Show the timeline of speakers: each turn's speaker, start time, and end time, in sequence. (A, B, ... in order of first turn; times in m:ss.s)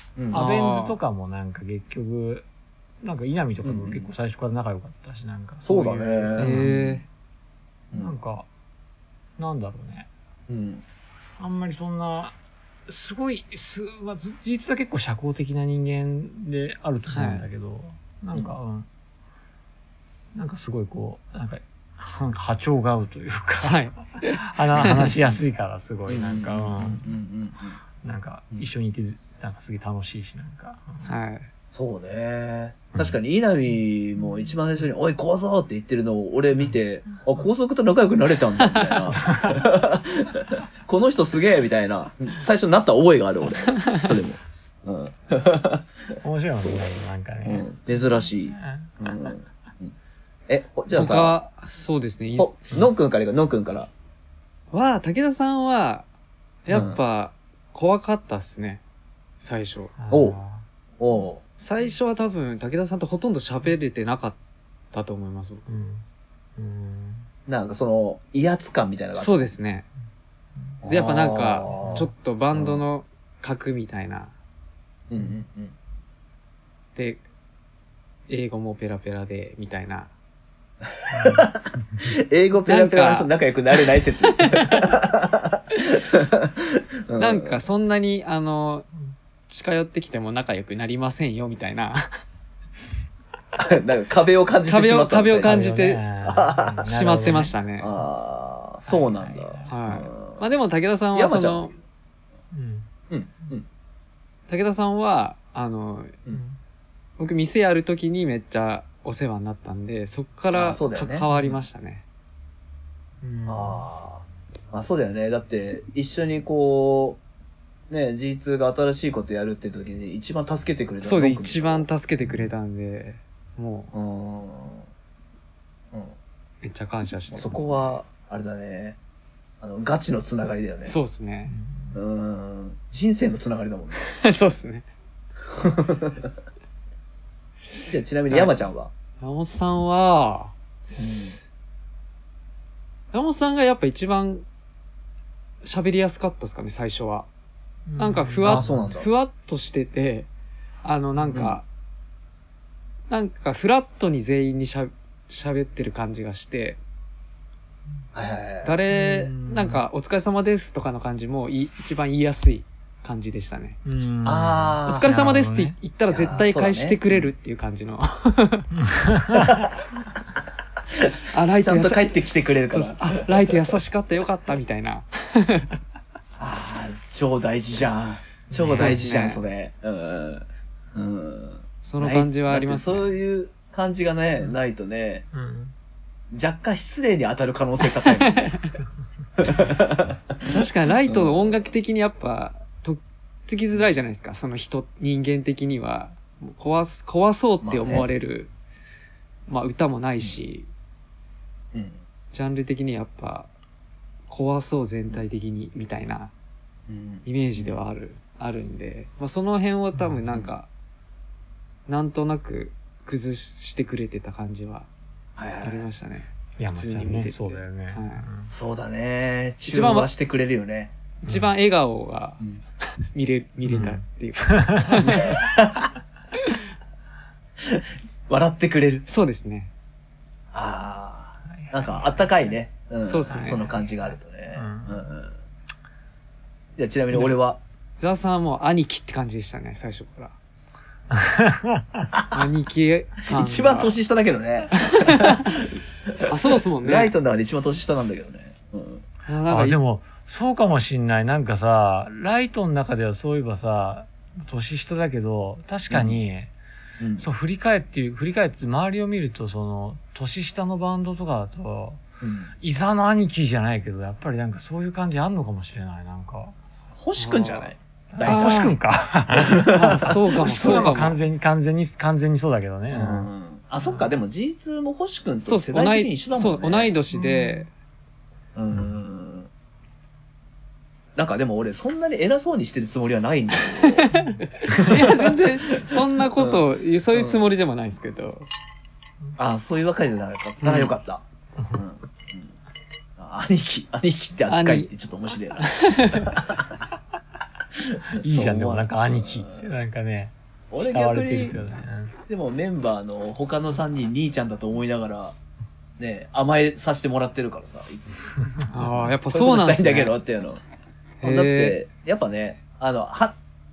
0:00.2-0:00.5 A
0:00.3-0:02.5 B
0:00.3-0:01.0 C
0:03.0-0:07.0 B
0:03.6-0:04.1 A
0:05.6-0:06.6 A
0:06.4-0:07.0 C
0:07.9-0:08.5 B
0:09.4-0:10.1 B
0:10.5-0:10.8 A
0:11.4-0:12.4 B
0:12.9-0:18.9 B
0:17.1-0:17.5 C
0:20.4-0:27.0 B
0:23.6-0:25.2 C
0:26.1-0:27.8 A
0:28.0-0:31.1 B
0:31.0-0:31.5 C
0:31.7-0:45.9 A
0:32.9-0:33.2 B
0:38.6-0:39.0 C
0:39.1-0:39.7 B
0:46.2-0:47.7 B
0:47.4-0:49.9 A
0:48.5-0:49.4 B
0:50.5-0:51.4 A
0:50.9-0:52.6 C
0:52.4-0:53.9 A
0:54.7-0:56.0 C
0:56.7-0:58.8 C
0:56.7-0:57.0 A
0:59.4-1:00.0 C
1:00.0-1:00.7 B
1:00.1-1:00.4 A
1:01.0-1:01.4 A
1:01.6-1:04.4 C
1:04.9-1:05.6 C
1:05.7-1:06.0 B
1:06.6-1:07.3 B
1:07.5-1:09.5 A
1:09.2-1:09.9 C
1:10.8-1:12.8 A
1:10.9-1:14.3 C
1:11.7-1:12.1 B
1:15.1-1:15.7 A
1:17.0-1:17.2 C
1:18.3-1:20.1 C
1:20.9-1:27.6 A
1:21.1-1:22.1 B
1:22.7-1:23.3 C
1:24.2-1:24.9 C
1:27.2-1:28.9 C
1:29.5-1:32.1 C
1:33.6-1:35.7 A
1:34.7-1:36.0 C
1:35.4-1:37.5 B
1:36.3-1:40.5 A
1:36.9-1:37.9 C
1:38.9-1:39.7 B
1:39.7-1:41.7 C
1:41.2-1:41.7 A
1:42.5-1:42.9 B
1:43.1-1:43.7 A
1:44.5-1:46.2 C
1:46.3-1:46.6 B
1:47.2-1:52.0 C
1:50.5-1:51.3 A
1:51.3-1:51.6 B
1:53.2-1:53.8 B
1:53.5-1:57.2 A
1:57.9-2:01.9 A
2:01.0-2:03.9 C
2:02.2-2:02.5 B
2:03.9-2:04.9 A
2:06.6-2:08.0 C
2:07.3-2:09.0 A
2:09.6-2:11.0 A
2:10.9-2:11.5 C
2:11.5-2:12.0 B
2:11.9-2:14.2 A
2:14.1-2:14.9 C
2:15.5-2:16.3 A
2:17.8-2:18.9 A
2:18.3-2:18.5 C
2:19.2-2:20.6 C
2:21.0-2:21.4 A
2:23.1-2:24.4 C
2:25.6-2:27.3 C
2:27.9-2:28.9 B
2:28.0-2:30.3 C
2:28.4-2:29.1 A
2:30.8-2:31.6 C
2:31.3-2:31.6 A
2:33.1-2:36.8 C
2:38.1-2:38.8 A
2:38.6-2:43.8 C
2:38.9-2:39.8 B
2:43.8-2:45.8 B
2:44.2-2:45.1 A
2:44.9-2:48.7 C
2:46.1-2:47.3 A
2:48.7-2:49.7 B
2:49.4-2:49.8 A
2:50.9-2:53.8 A
2:51.3-2:52.1 C
2:52.7-2:55.7 C
2:56.4-3:05.2 A
2:58.5-2:59.0 B
2:58.6-2:59.4 C
3:01.8-3:03.2 C
3:05.3-3:05.7 B
3:06.3-3:08.6 A
3:07.9-3:08.7 C
3:09.4-3:11.7 A
3:10.4-3:18.5 C
3:17.6-3:18.1 A
3:19.5-3:20.7 C
3:21.7-3:22.0 A
3:22.3-3:23.5 C
3:24.3-3:26.3 C
3:26.9-3:27.8 A
3:27.2-3:30.7 C
3:30.0-3:30.2 B
3:31.9-3:34.9 C
3:35.4-3:35.9 A
3:35.6-3:38.2 C
3:36.6-3:38.5 B
3:38.5-3:40.9 A
3:39.7-3:40.1 C
3:41.2-3:42.4 C
3:41.3-3:41.5 B
3:43.1-3:45.4 C
3:43.6-3:45.4 B
3:45.0-3:45.9 A
3:47.6-3:49.1 A
3:49.1-3:49.7 C
3:50.5-3:55.3 A
3:51.5-3:52.5 B
3:53.0-3:53.7 C
3:53.3-3:55.1 B
3:56.8-3:57.6 A
3:58.0-4:00.4 C
4:01.1-4:02.1 B
4:02.1-4:02.4 A
4:02.3-4:04.0 C
4:03.3-4:09.0 A
4:04.7-4:05.6 C
4:06.3-4:07.1 C
4:09.3-4:09.8 C
4:09.5-4:16.5 B
4:15.9-4:16.2 A
4:17.0-4:17.2 A
4:17.2-4:22.0 B
4:22.2-4:22.5 A
4:22.6-4:26.6 B
4:27.0-4:28.7 A
4:27.2-4:27.7 C
4:28.1-4:33.3 B
4:28.2-4:28.8 C
4:29.5-4:31.0 A
4:29.7-4:31.2 C
4:32.9-4:36.9 A
4:33.8-4:34.1 B
4:35.4-4:37.7 C
4:37.1-4:37.7 B
4:38.6-4:39.5 A
4:41.2-4:44.1 A
4:43.7-4:48.5 C
4:44.1-4:44.8 B
4:44.7-4:47.5 A
4:49.4-4:51.2 A
4:50.6-4:50.9 C
4:51.6-4:51.8 B
4:51.7-4:52.5 A
4:53.2-4:56.7 A
4:54.5-4:54.9 C
4:55.6-4:56.4 C
4:57.8-4:59.7 A
4:58.2-5:02.1 B
5:00.7-5:01.6 A
5:02.3-5:05.4 A
5:06.0-5:08.3 A
5:08.7-5:10.2 C
5:08.8-5:10.6 A
5:11.2-5:11.8 C
5:11.2-5:13.4 A